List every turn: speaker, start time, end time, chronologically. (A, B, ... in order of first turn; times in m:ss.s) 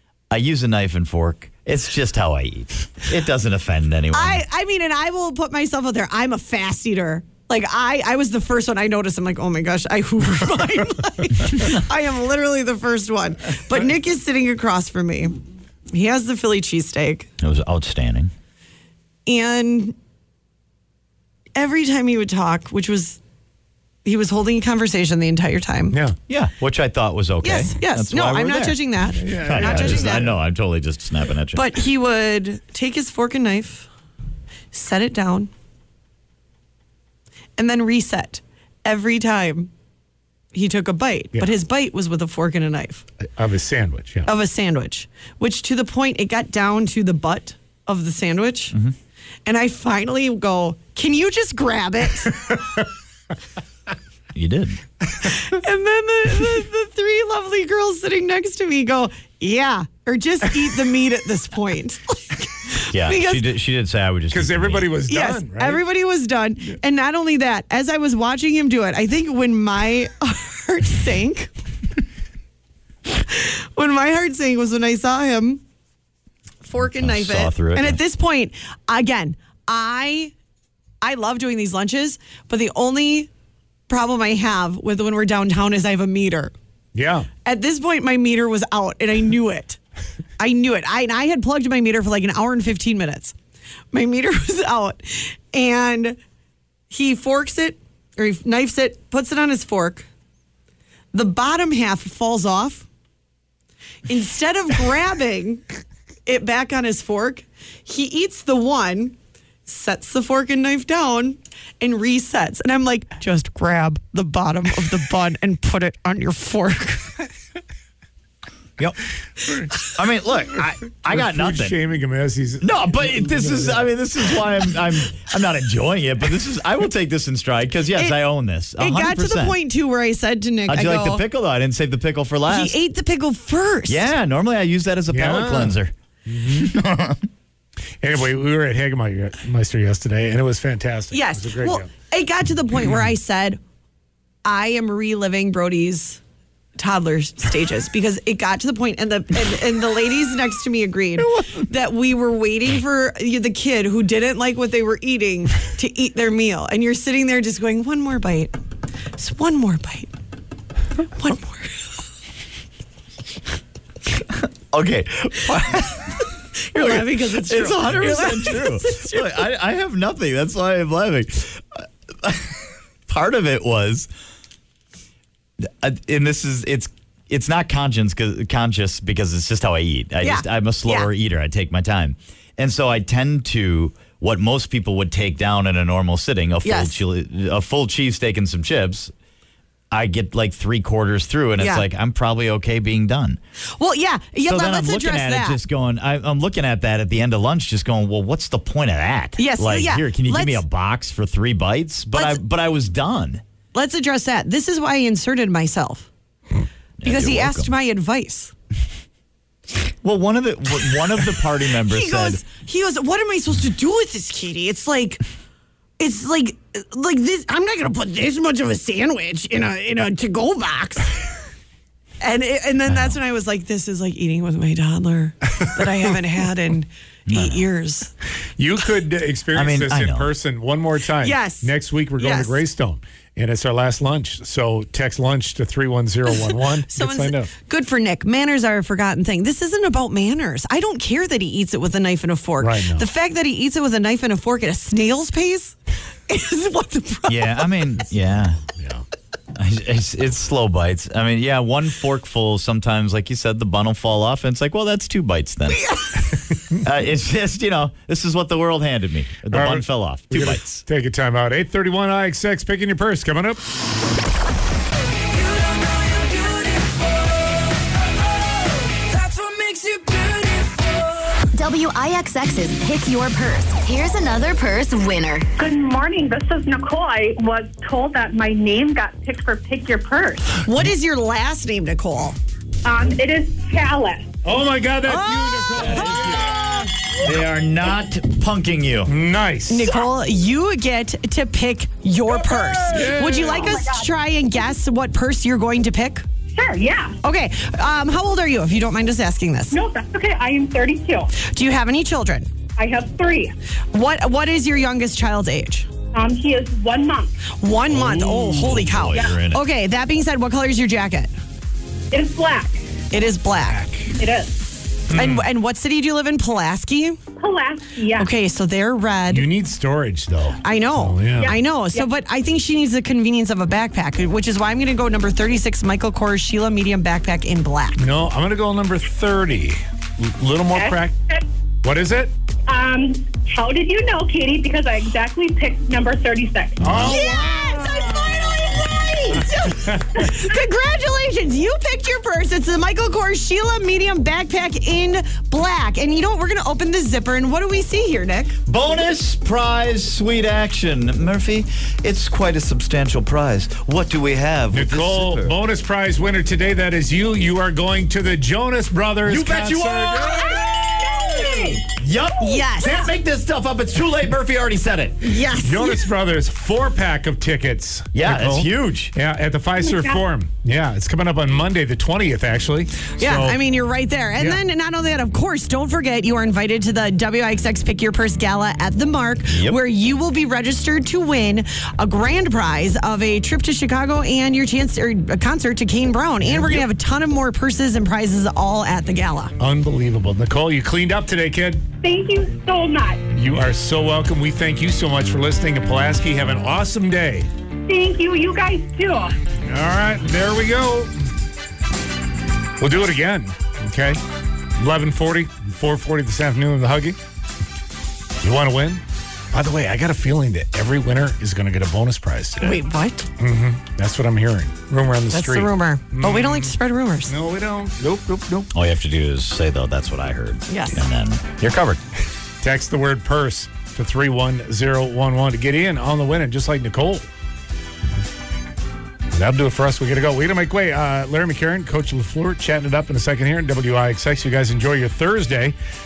0:00.3-0:04.4 A
0:04.1-0:15.3 B
0:15.9-0:17.3 B
0:17.4-0:18.3 A
0:19.2-0:19.9 B
0:21.6-0:23.2 B
0:24.0-0:26.0 B
0:25.9-0:26.2 C
0:26.3-0:28.8 A
0:27.4-0:30.4 B
0:29.2-0:30.3 C
0:29.4-0:31.7 A
0:31.5-0:33.9 B
0:34.7-0:35.5 B
0:37.6-0:39.7 B
0:40.5-0:43.0 B
0:43.4-0:44.3 C
0:44.2-0:48.7 B
0:49.4-0:52.4 B
0:54.3-0:54.8 A
0:55.2-1:03.4 B
1:02.9-1:05.0 A
1:04.3-1:05.8 C
1:05.1-1:11.5 B
1:13.1-1:15.6 B
1:16.6-1:20.3 B
1:16.8-1:18.0 A
1:21.0-1:23.3 B
1:23.9-1:26.5 B
1:26.9-1:27.3 C
1:27.4-1:29.8 B
1:30.4-1:33.3 B
1:33.9-1:36.2 B
1:36.9-1:40.1 B
1:41.1-1:42.9 B
1:44.1-1:45.6 B
1:46.2-1:49.1 B
1:49.6-1:57.2 B
1:59.8-2:01.8 A
2:01.1-2:03.9 C
2:02.6-2:09.6 A
2:07.9-2:08.2 B
2:08.8-2:11.2 B
2:10.7-2:12.8 A
2:12.5-2:14.1 B
2:13.9-2:15.9 A
2:15.1-2:16.7 C
2:16.4-2:17.2 A
2:18.0-2:21.9 C
2:21.1-2:23.6 B
2:24.4-2:26.2 B
2:26.8-2:38.5 B
2:39.2-2:40.1 B
2:41.1-2:41.8 B
2:44.3-2:46.2 A
2:46.6-2:49.5 B
2:46.7-2:54.1 A
2:55.6-3:09.1 A
3:00.2-3:01.1 B
3:06.6-3:07.0 B
3:09.9-3:13.4 A
3:11.6-3:11.9 B
3:13.8-3:15.6 B
3:14.4-3:23.4 A
3:19.4-3:20.6 B
3:22.1-3:22.4 B
3:23.7-3:26.1 B
3:27.0-3:27.7 A
3:27.0-3:28.5 B
3:30.0-3:32.4 A
3:31.8-3:35.2 B
3:36.0-3:41.1 B
3:42.2-3:48.1 B
3:47.3-3:47.6 A
3:48.6-3:57.5 C
3:49.5-3:50.3 A
3:51.2-3:52.6 B
3:56.3-4:05.8 B
4:02.6-4:03.1 C
4:06.3-4:07.7 B
4:07.3-4:08.6 A
4:08.8-4:09.0 C
4:09.5-4:15.8 A
4:15.7-4:16.3 B
4:16.8-4:20.8 A
4:19.5-4:23.6 C
4:25.8-4:27.0 D
4:31.4-4:35.5 D
4:35.6-4:40.5 E
4:40.6-4:42.4 B
4:42.8-4:44.3 E
4:44.4-4:46.9 C
4:45.0-4:46.9 B
4:47.2-4:49.1 A
4:49.1-4:49.9 C
4:49.7-4:56.2 B
4:52.9-4:53.8 C
4:53.5-4:54.1 E
4:56.5-4:57.2 E
4:57.2-4:59.8 B
4:59.7-5:01.3 E
5:01.4-5:02.5 B
5:02.8-5:03.5 E
5:03.9-5:05.9 B
5:06.1-5:07.3 E
5:07.6-5:11.3 B
5:07.9-5:09.6 A
5:12.1-5:12.9 E
5:13.1-5:13.9 B
5:13.7-5:14.1 C
5:14.2-5:14.6 E
5:15.1-5:15.4 C
5:15.1-5:17.2 B
5:17.4-5:18.3 E
5:18.2-5:19.5 B
5:19.3-5:21.5 C
5:20.6-5:28.0 B
5:21.4-5:22.1 E
5:28.0-5:31.1 C
5:30.7-5:31.4 E
5:31.8-5:32.3 C
5:32.7-5:36.9 E
5:36.8-5:38.3 C
5:36.9-5:48.6 B
5:39.7-5:40.2 C
5:48.6-5:55.5 A
5:54.7-6:00.5 C
5:59.2-6:05.4 A
6:00.5-6:01.8 E
6:02.4-6:03.0 B
6:05.2-6:06.0 B
6:05.6-6:13.6 C
6:08.1-6:09.1 A
6:09.8-6:10.2 E
6:13.2-6:29.5 B
6:19.5-6:19.8 A
6:26.4-6:26.8 C
6:29.6-6:31.8 C
6:32.0-6:33.2 E
6:33.3-6:37.5 C
6:37.8-6:39.4 E
6:39.6-6:41.1 C
6:42.8-6:44.2 C
6:44.8-6:47.2 C
6:48.4-6:52.8 C
6:52.6-6:53.3 B
6:53.4-6:56.8 C
6:55.3-6:57.3 B
6:57.3-6:58.7 C
6:58.7-7:02.0 A
7:00.7-7:01.0 B
7:02.6-7:07.2 C
7:09.3-7:15.8 C